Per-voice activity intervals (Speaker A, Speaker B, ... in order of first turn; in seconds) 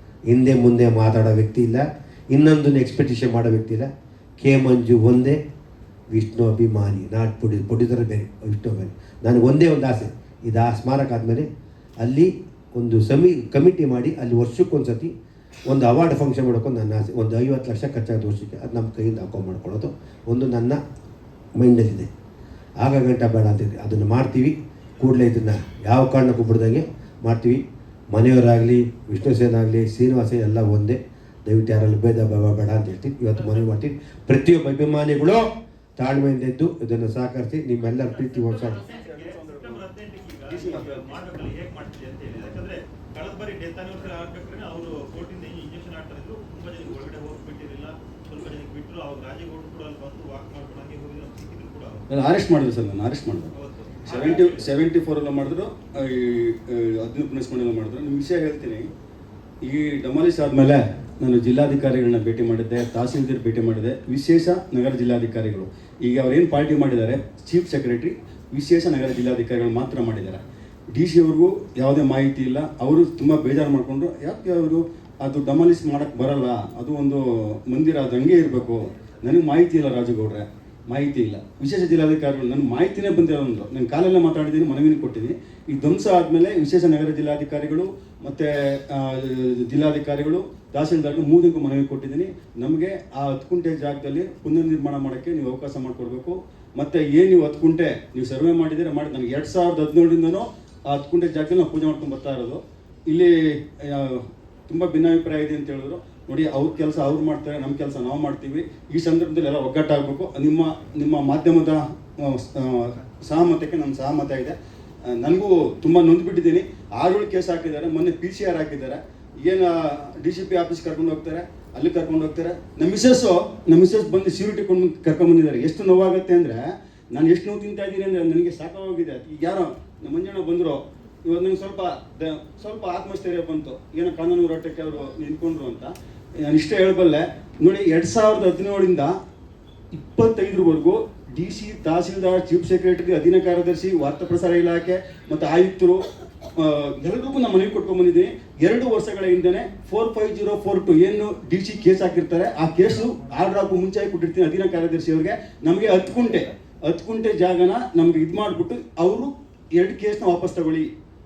Speaker A: 0.3-3.9, 4.4-5.4, 6.1-11.5, 12.0-15.1, 15.7-20.8, 21.6-22.1, 22.8-35.4, 36.0-38.8
Speaker B: 33.4-33.6, 37.9-52.0, 53.5-54.7
Speaker C: 38.8-39.8, 40.5-41.2, 52.1-53.5, 54.0-58.9, 59.6-70.4, 70.9-114.6, 115.1-139.1, 140.0-146.1, 146.6-160.9